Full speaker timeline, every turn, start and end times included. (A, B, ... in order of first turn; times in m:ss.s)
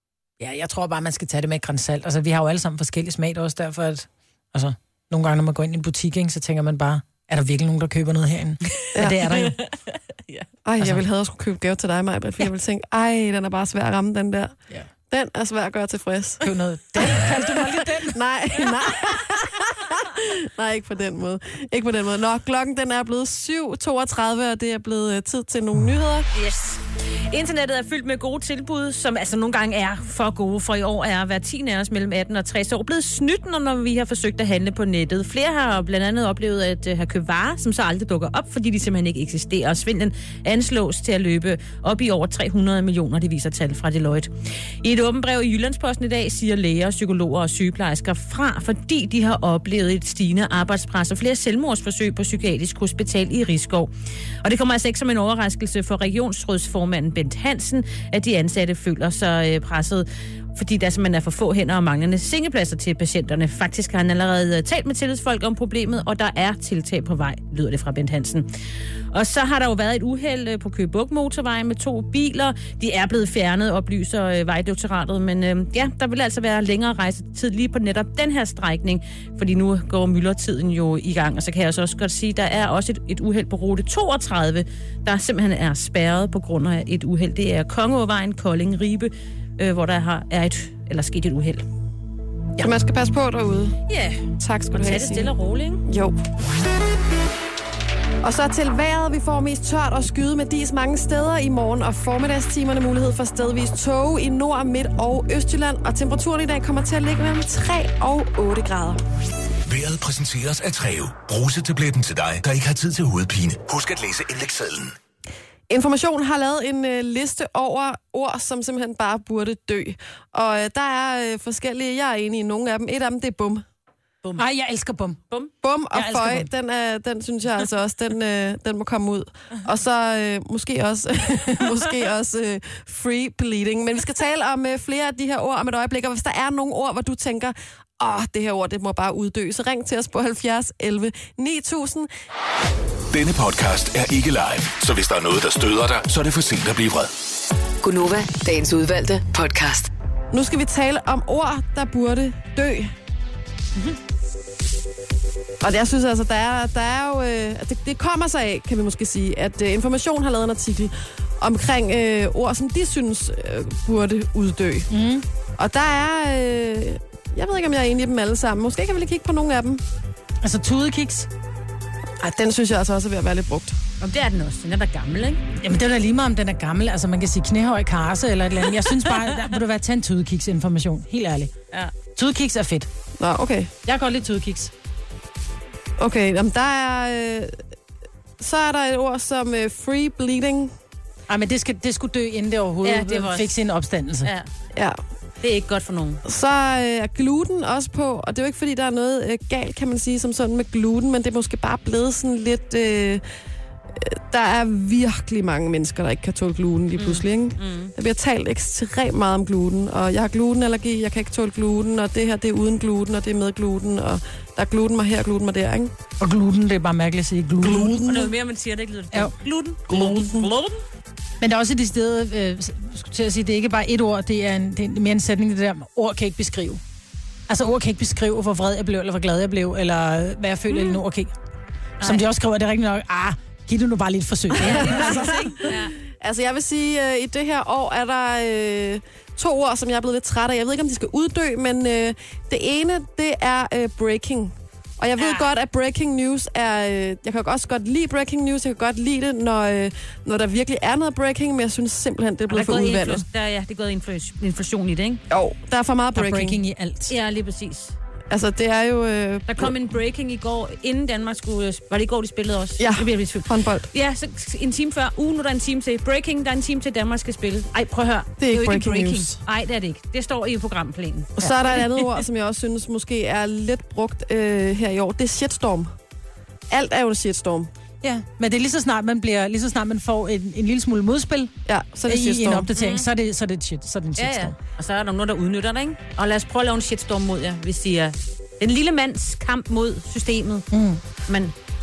0:00.4-0:09.6 A
0:09.1-0:10.5 B
0:10.6-0:14.6 C
0:15.1-0:16.4 C
0:16.4-0:18.2 A
0:17.0-0:26.3 C
0:26.3-0:53.9 B
0:54.4-1:08.5 B
1:09.1-1:31.6 B
1:32.6-1:33.8 C
1:33.9-1:35.8 B
1:34.4-1:35.3 C
1:35.8-1:36.2 C
1:38.2-1:49.0 C
1:49.7-1:54.9 D
1:55.7-2:03.6 C
2:04.2-2:05.2 A
2:05.6-2:22.1 C
2:05.9-2:06.5 A
2:23.1-2:27.1 D
2:27.8-2:29.9 E
2:30.3-2:32.9 C
2:35.6-2:44.9 C
2:44.9-2:45.2 A
2:45.6-2:49.8 C
2:50.4-2:51.3 A
2:52.2-2:53.7 C
2:54.0-2:55.4 B
2:55.6-3:01.5 A
3:02.1-3:02.9 A
3:03.2-3:03.7 C
3:03.8-3:04.7 A
3:06.0-3:07.6 C
3:08.4-3:10.7 C
3:11.3-3:14.3 A
3:12.8-3:13.5 B
3:14.2-3:14.5 B
3:15.4-3:16.2 B
3:16.2-3:23.2 C
3:23.9-3:35.9 C
3:27.0-3:27.9 B
3:36.2-3:38.2 A
3:37.6-3:38.3 C
3:38.0-3:40.8 B
3:39.9-3:40.4 C
3:41.4-3:46.8 A
3:47.5-3:51.3 A
3:50.7-3:51.0 B
3:52.0-3:55.5 A
3:54.6-3:56.0 B
3:54.6-4:13.2 C
4:05.2-4:05.5 B
4:12.5-4:15.2 B
4:15.3-4:16.6 C
4:16.1-4:17.1 A
4:17.1-4:17.9 B
4:18.3-4:19.7 C
4:19.5-4:31.9 B
4:22.8-4:23.9 C
4:28.4-4:29.4 C
4:31.4-4:35.9 C
4:36.7-4:37.7 C
4:38.0-4:41.5 A
4:41.7-4:42.7 C
4:42.0-4:44.5 A
4:42.8-4:43.1 B
4:44.2-4:50.7 B
4:50.7-4:51.0 A
4:51.2-4:51.5 B